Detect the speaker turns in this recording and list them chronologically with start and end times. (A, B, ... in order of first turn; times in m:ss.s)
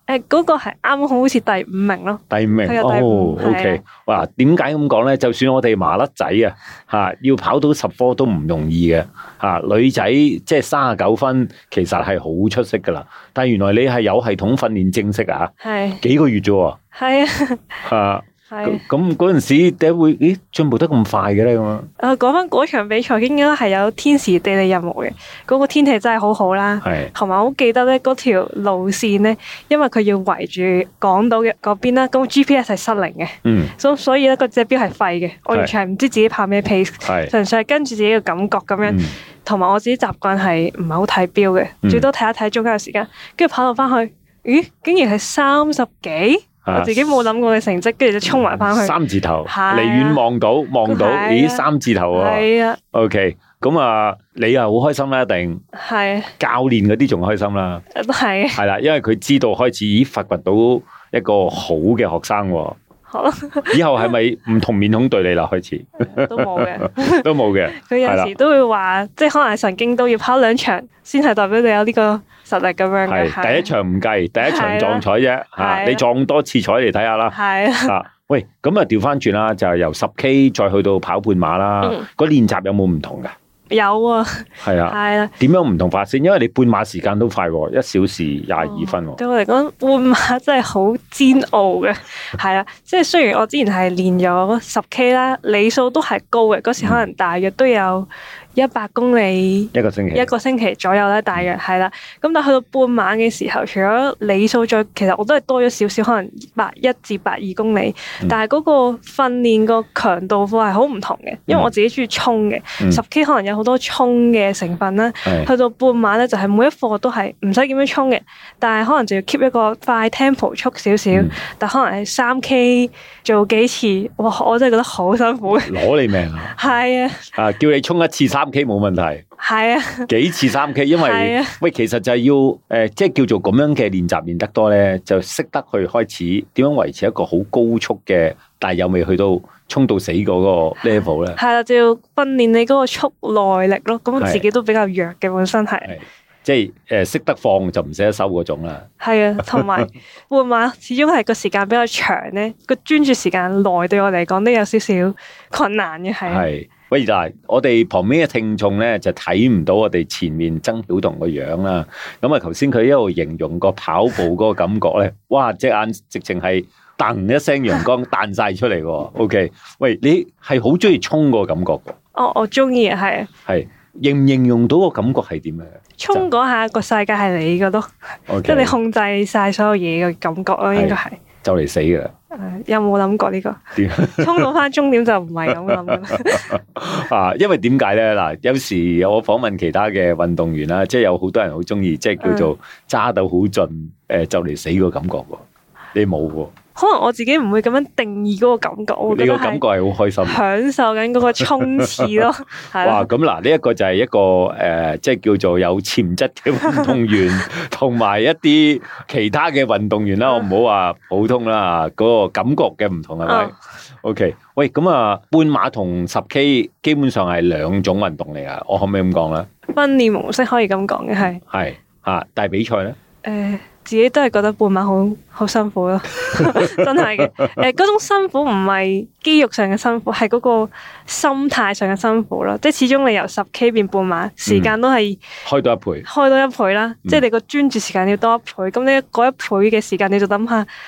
0:00.1-0:03.8 A
0:02.3-0:16.8 B
0:15.6-0:16.0 A
0:17.0-0:17.8 A
0:17.8-0:21.9 B
0:18.5-0:18.8 A
0:22.0-0:50.2 A
0:26.8-0:27.1 B
0:33.4-0:33.7 B
0:37.0-0:37.3 B
0:38.8-0:39.2 B
0:46.6-0:47.2 B
0:48.3-0:55.6 B
0:50.8-0:52.8 A
0:55.8-0:56.3 A
0:56.4-0:57.8 B
0:57.9-0:58.6 A
0:58.5-1:02.8 B
1:03.1-1:03.8 A
1:03.7-1:08.3 B
1:06.0-1:13.7 A
1:13.1-1:23.3 B
1:14.4-1:15.0 A
1:15.6-1:16.0 A
1:17.3-1:18.0 A
1:23.7-1:25.3 A
1:24.6-1:29.2 B
1:28.6-2:05.8 A
1:36.8-1:37.1 B
1:39.7-1:40.3 B
1:55.2-1:55.5 B
2:05.6-2:06.6 B
2:06.5-2:07.3 A
2:07.3-2:09.2 B
2:09.4-2:10.1 A
2:10.1-2:21.4 B
2:11.0-2:11.6 A
2:20.8-2:25.9 A
2:25.8-2:28.9 B
2:29.0-2:36.5 A
2:36.3-2:52.0 B
2:52.2-2:53.3 A
2:53.5-2:56.3 B
2:56.0-2:57.9 A
2:58.3-2:58.8 B
2:58.4-3:01.2 A
3:00.7-3:02.1 B
3:02.3-3:06.6 A
3:03.8-3:04.5 B
3:05.5-3:16.5 B
3:12.2-3:12.5 A
3:16.8-3:19.6 A
3:19.1-3:20.4 B
3:20.2-3:23.1 A
3:21.4-3:22.3 B
3:22.8-3:39.5 B
3:33.3-3:33.5 A
3:39.7-3:41.4 A
3:41.5-3:43.0 B
3:43.2-3:55.2 A
3:46.4-3:46.7 B
3:54.5-3:54.8 B
3:55.4-3:56.1 B
3:56.0-4:00.7 A